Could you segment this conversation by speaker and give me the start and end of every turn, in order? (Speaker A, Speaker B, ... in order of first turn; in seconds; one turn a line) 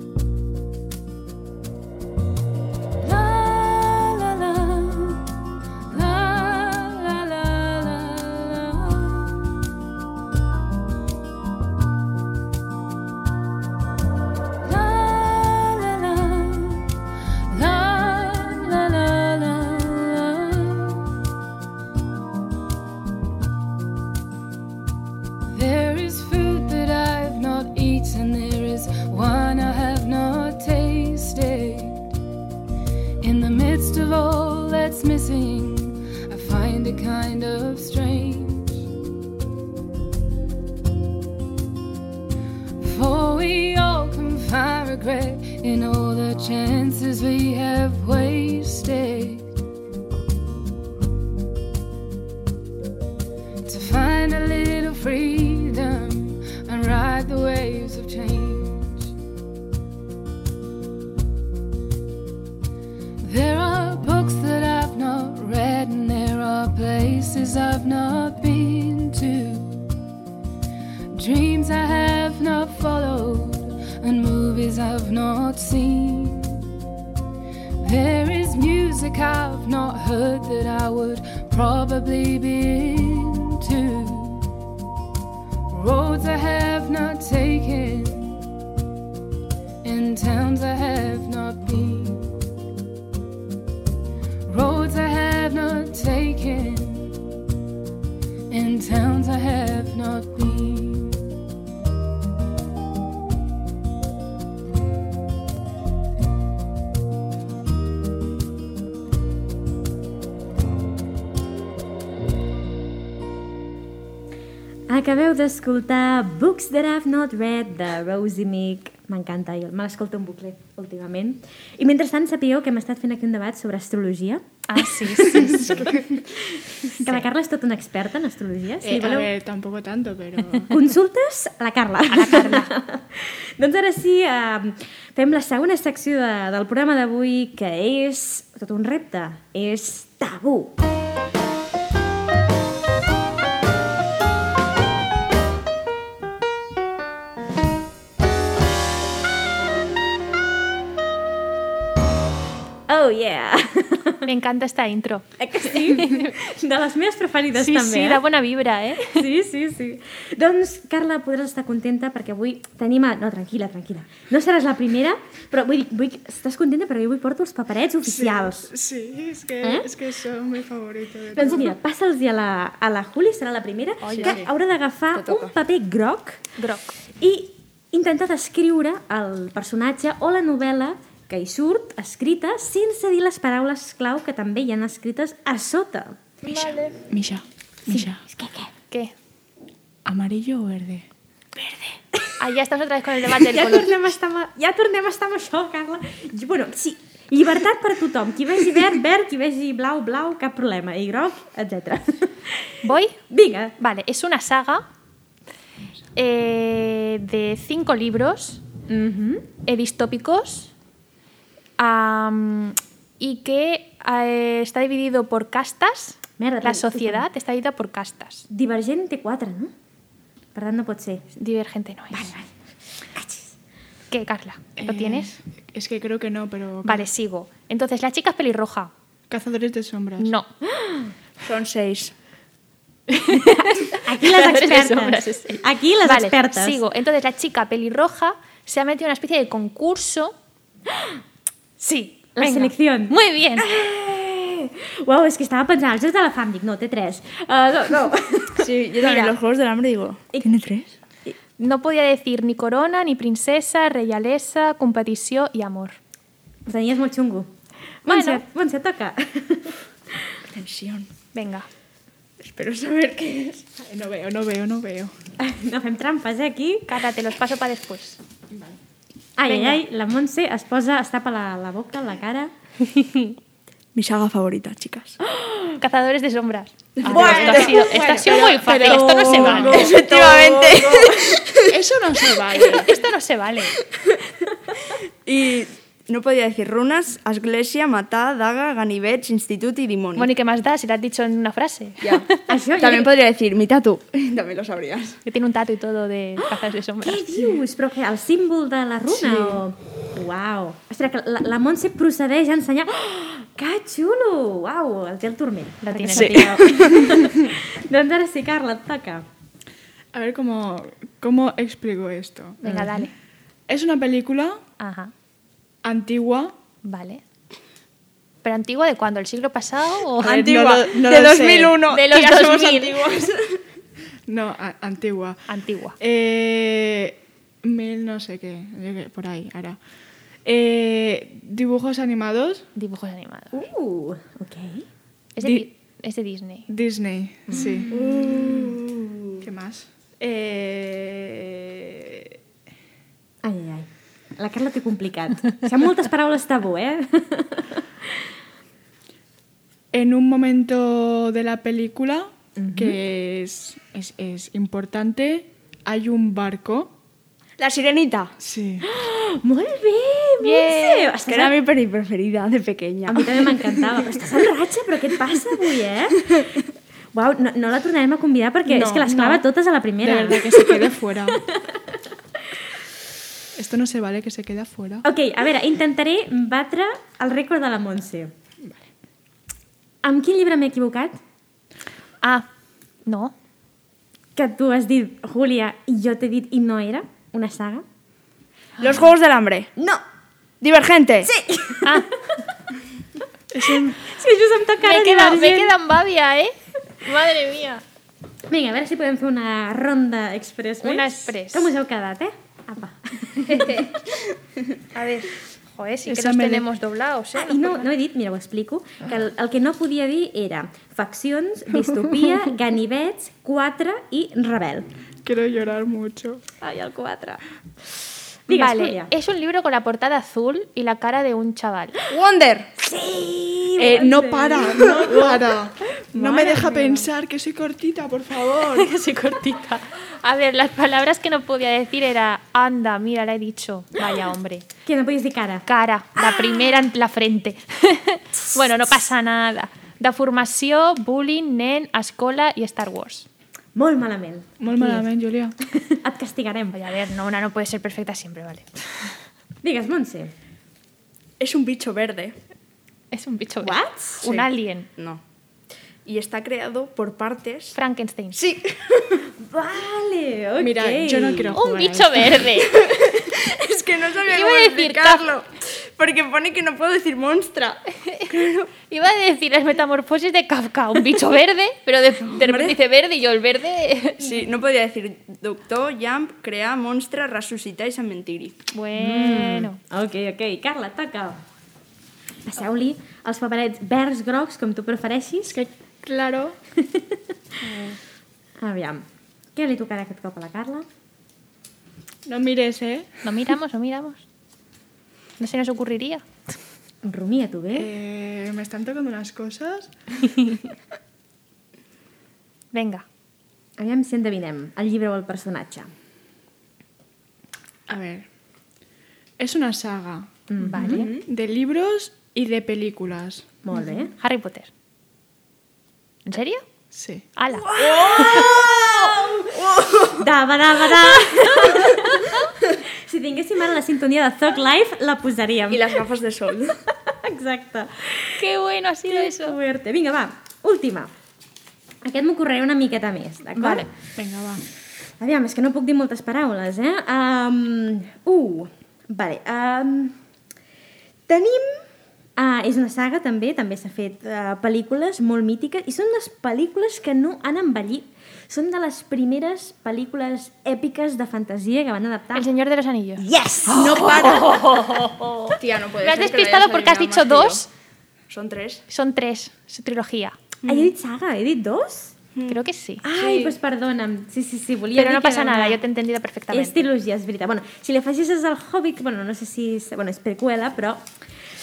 Speaker A: 3.0-5.3
Speaker A: 5.9-9.5
Speaker A: 14.6-16.9
Speaker A: 17.5-21.1
Speaker A: 25.5-32.0
Speaker A: 33.2-38.9
Speaker A: 42.8-49.5
Speaker A: 53.6-59.1
Speaker A: 63.2-69.9
Speaker A: 71.1-76.6
Speaker A: 77.8-84.5
Speaker A: 85.7-88.4
Speaker A: 89.8-92.3
Speaker A: 94.5-97.2
Speaker A: 98.5-101.3
Speaker B: 114.9-129.3
Speaker C: 124.7-125.8
Speaker D: 125.3-126.3
Speaker D: 128.8-130.8
Speaker B: 130.6-140.8
Speaker C: 132.1-132.7
Speaker B: 152.9-154.3
Speaker C: 154.2-156.3
Speaker B: 155.4-158.2
Speaker C: 157.5-159.2
Speaker B: 159.0-168.7
Speaker D: 168.0-171.7
Speaker B: 169.6-169.9
Speaker B: 171.3-176.5
Speaker C: 174.0-174.4
Speaker E: 175.2-175.5
Speaker C: 176.6-177.0
Speaker B: 177.2-186.7
Speaker C: 186.4-187.0
Speaker D: 187.1-188.2
Speaker B: 187.9-188.7
Speaker D: 190.1-191.1
Speaker C: 192.4-194.0
Speaker B: 193.3-203.8
Speaker C: 202.8-203.2
Speaker C: 203.8-204.8
Speaker C: 206.2-208.6
Speaker B: 208.9-209.5
Speaker C: 209.7-210.7
Speaker C: 211.8-218.5
Speaker B: 216.4-217.3
Speaker B: 218.5-219.7
Speaker B: 220.5-221.3
Speaker C: 221.3-222.3
Speaker B: 222.1-223.5
Speaker C: 224.1-225.3
Speaker D: 224.8-227.1
Speaker C: 226.8-228.9
Speaker D: 229.3-230.3
Speaker C: 230.2-230.5
Speaker B: 230.6-231.1
Speaker E: 231.4-232.1
Speaker C: 233.1-240.3
Speaker B: 233.3-236.8
Speaker C: 241.8-243.7
Speaker B: 242.4-248.7
Speaker E: 248.6-250.9
Speaker C: 249.0-249.3
Speaker C: 251.6-256.0
Speaker B: 256.7-257.5
Speaker B: 258.0-260.4
Speaker C: 258.1-258.4
Speaker E: 260.5-261.1
Speaker C: 261.3-261.7
Speaker E: 262.4-263.6
Speaker D: 263.8-265.1
Speaker B: 265.4-266.9
Speaker C: 266.9-268.2
Speaker D: 268.5-268.8
Speaker B: 269.4-273.4
Speaker C: 269.5-269.8
Speaker E: 273.9-275.2
Speaker B: 275.2-275.8
Speaker C: 275.8-279.9
Speaker E: 277.0-277.8
Speaker B: 277.0-281.1
Speaker D: 277.2-281.1
Speaker E: 278.6-281.8
Speaker D: 281.7-282.9
Speaker C: 282.6-283.8
Speaker E: 285.2-290.3
Speaker C: 290.2-292.4
Speaker E: 292.0-295.2
Speaker B: 292.5-293.1
Speaker C: 295.2-297.4
Speaker B: 296.4-309.3
Speaker C: 305.8-306.8
Speaker E: 306.1-307.2
Speaker D: 310.1-312.6
Speaker C: 312.6-313.1
Speaker B: 312.6-313.1
Speaker D: 313.7-314.6
Speaker C: 314.8-315.1
Speaker D: 315.8-316.5
Speaker C: 316.8-317.2
Speaker C: 318.4-320.5
Speaker D: 320.2-321.8
Speaker E: 320.2-323.6
Speaker C: 321.9-323.2
Speaker D: 324.3-325.4
Speaker C: 325.5-326.0
Speaker D: 326.0-329.8
Speaker D: 330.4-332.7
Speaker C: 332.8-333.6
Speaker B: 333.5-334.9
Speaker C: 335.4-336.7
Speaker D: 336.7-337.9
Speaker B: 337.5-338.8
Speaker E: 337.9-339.4
Speaker D: 339.4-341.0
Speaker E: 340.2-341.9
Speaker B: 343.4-348.3
Speaker D: 349.9-356.9
Speaker B: 352.6-353.0
Speaker E: 357.6-358.4
Speaker D: 358.4-358.9
Speaker B: 358.8-361.6
Speaker C: 360.4-361.1
Speaker E: 361.3-363.5
Speaker B: 363.1-366.4
Speaker B: 367.1-371.9
Speaker D: 368.7-369.4
Speaker D: 370.0-371.4
Speaker D: 373.6-375.0
Speaker B: 375.0-378.3
Speaker B: 380.0-381.2
Speaker C: 382.2-382.5
Speaker C: 383.1-383.3
Speaker B: 384.4-387.8
Speaker E: 388.8-389.7
Speaker B: 389.8-390.0
Speaker E: 390.6-391.3
Speaker B: 391.2-392.8
Speaker C: 391.8-392.1
Speaker D: 393.5-394.0
Speaker B: 393.6-395.8
Speaker C: 394.8-397.8
Speaker B: 398.5-403.9
Speaker C: 400.8-401.7
Speaker C: 403.4-403.9
Speaker C: 404.9-407.9
Speaker D: 406.1-406.7
Speaker B: 407.4-414.9
Speaker D: 415.2-416.4
Speaker B: 416.6-417.4
Speaker B: 418.5-419.1
Speaker C: 418.5-422.0
Speaker E: 422.1-422.8
Speaker B: 422.8-427.1
Speaker D: 423.8-428.9
Speaker E: 423.8-425.3
Speaker C: 428.7-434.7
Speaker B: 434.9-435.7
Speaker C: 435.7-443.3
Speaker B: 436.2-436.6
Speaker B: 443.8-445.1
Speaker D: 444.6-445.6
Speaker B: 445.6-446.8
Speaker C: 446.7-448.8
Speaker B: 449.6-450.3
Speaker E: 451.4-452.4
Speaker C: 453.1-454.9
Speaker B: 453.6-454.3
Speaker E: 454.2-455.2
Speaker E: 456.1-457.8
Speaker C: 457.8-458.4
Speaker E: 458.4-459.2
Speaker B: 459.3-461.6
Speaker D: 460.6-462.5
Speaker C: 461.5-462.7
Speaker E: 462.7-468.7
Speaker C: 464.3-465.3
Speaker C: 468.9-474.3
Speaker E: 472.3-472.8
Speaker E: 474.2-478.6
Speaker C: 478.7-479.8
Speaker B: 478.9-481.4
Speaker B: 482.4-485.6
Speaker D: 485.5-486.6
Speaker B: 486.8-487.6
Speaker D: 487.6-488.0
Speaker B: 488.6-490.9
Speaker D: 492.3-493.1
Speaker C: 493.2-494.2
Speaker C: 495.4-496.2
Speaker B: 497.0-497.9
Speaker D: 497.7-500.6
Speaker C: 502.7-503.1
Speaker B: 503.8-505.9
Speaker D: 507.9-508.3
Speaker D: 509.4-510.4
Speaker B: 510.5-511.1
Speaker C: 510.6-511.1
Speaker E: 510.8-511.3
Speaker D: 511.2-513.5
Speaker B: 513.6-514.1
Speaker C: 514.1-514.7
Speaker C: 516.3-516.6
Speaker D: 516.9-517.3
Speaker C: 517.4-518.5
Speaker B: 517.5-526.0
Speaker E: 517.7-520.3
Speaker E: 525.7-526.8
Speaker B: 526.7-528.5
Speaker C: 528.4-529.6
Speaker B: 529.0-531.1
Speaker B: 532.0-533.9
Speaker C: 533.6-533.9
Speaker D: 534.2-534.6
Speaker B: 535.2-540.2
Speaker B: 541.3-541.9
Speaker B: 542.4-552.5
Speaker C: 552.3-557.7
Speaker B: 553.2-554.7
Speaker E: 553.7-554.6
Speaker E: 555.6-557.6
Speaker E: 558.3-558.9
Speaker C: 558.9-560.4
Speaker E: 560.6-560.9
Speaker B: 560.7-562.2
Speaker C: 562.5-563.0
Speaker B: 563.0-565.8
Speaker E: 563.1-563.6
Speaker C: 565.0-566.9
Speaker B: 566.5-571.0